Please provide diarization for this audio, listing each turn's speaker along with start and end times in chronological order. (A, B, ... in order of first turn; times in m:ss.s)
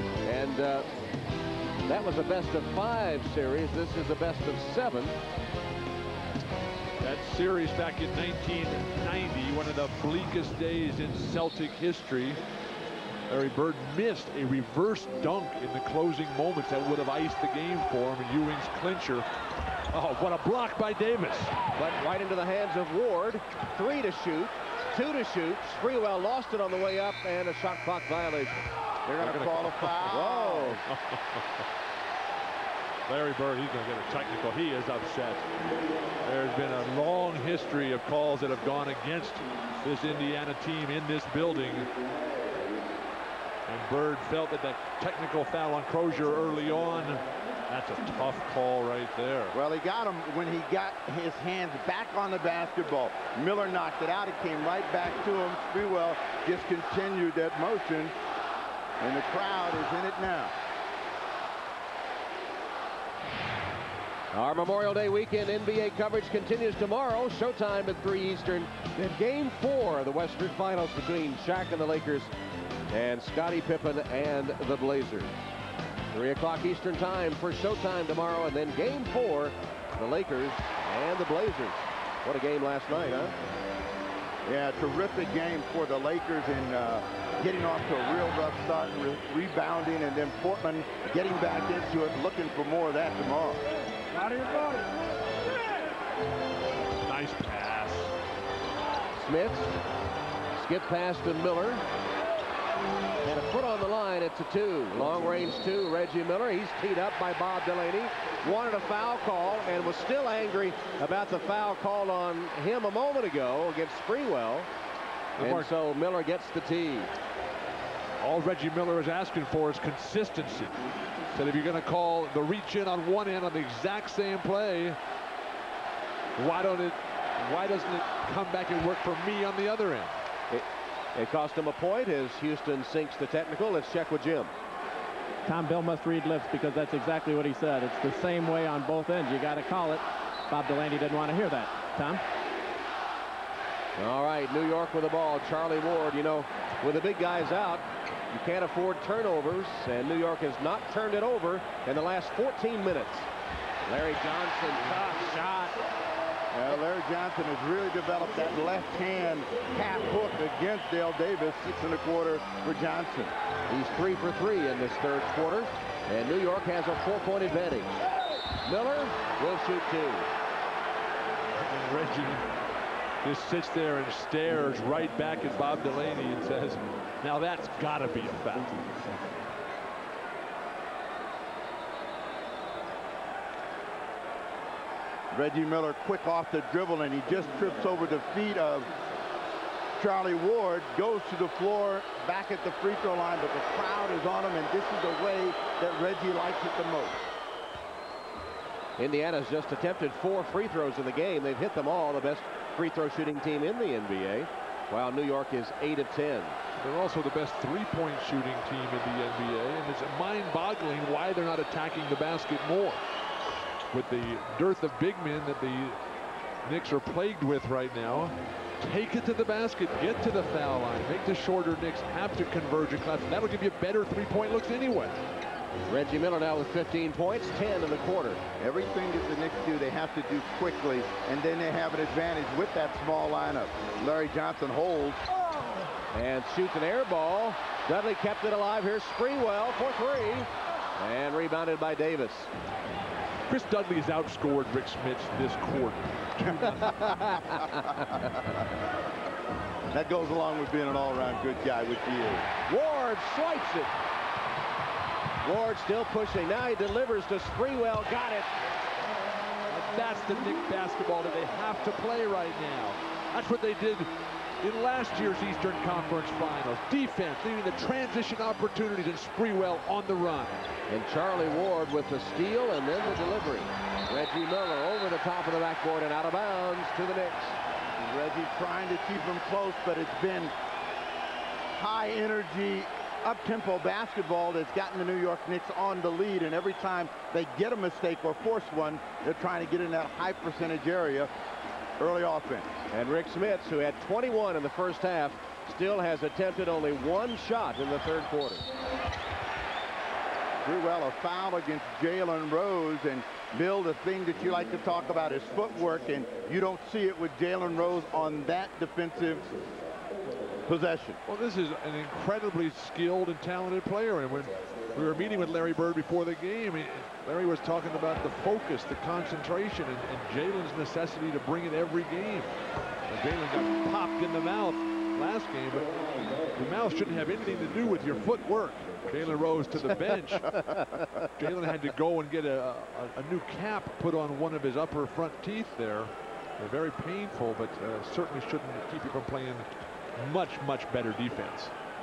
0:00.2-0:00.9 A
0:01.8-0:05.2 A
0:07.0-0:12.4 B
0:13.3-0:19.3 B
0:19.9-0:21.6 B
0:21.7-0:28.7 A
0:29.1-0:30.8 C
0:29.2-0:30.1 B
0:30.0-0:30.8 A
0:30.8-0:31.4 B
0:33.0-0:35.4 B
0:36.2-0:41.9 B
0:43.7-0:49.5 B
0:49.5-0:58.1 C
0:59.0-1:00.5 C
1:04.3-1:12.3 A
1:12.9-1:15.3 A
1:16.1-1:23.4 A
1:24.5-1:33.6 C
1:37.0-1:38.1 B
1:39.2-1:39.8 A
1:40.5-1:41.8 A
1:43.2-1:54.7 A
1:55.4-1:55.7 B
1:55.4-1:57.1 A
1:58.2-2:00.8 B
2:01.3-2:05.0 B
2:06.4-2:10.1 B
2:10.5-2:14.5 A
2:15.4-2:22.2 D
2:24.0-2:33.3 A
2:33.8-2:35.8 A
2:36.5-2:43.3 C
2:43.7-2:48.0 A
2:48.6-2:50.3 A
2:51.7-2:52.4 B
2:53.2-2:58.9 B
3:05.3-3:08.9 C
3:10.0-3:17.2 C
3:19.0-3:26.6 A
3:26.8-3:33.0 B
3:33.9-3:36.0 B
3:36.6-3:45.2 B
3:45.9-3:48.4 A
3:48.6-3:55.2 C
3:56.1-4:02.5 A
4:03.5-4:07.4 B
4:06.8-4:08.2 A
4:09.9-4:12.5 C
4:12.7-4:13.9 A
4:15.4-4:18.5 A
4:19.7-4:24.1 B
4:24.6-4:30.6 B
4:30.9-4:37.6 A
4:38.0-4:40.5 C
4:41.8-4:51.3 C
4:52.0-4:52.7 C
4:52.9-4:58.7 A
5:00.6-5:09.5 C
5:10.7-5:11.2 C
5:11.3-5:22.5 B
5:23.1-5:26.0 B
5:26.5-5:41.7 B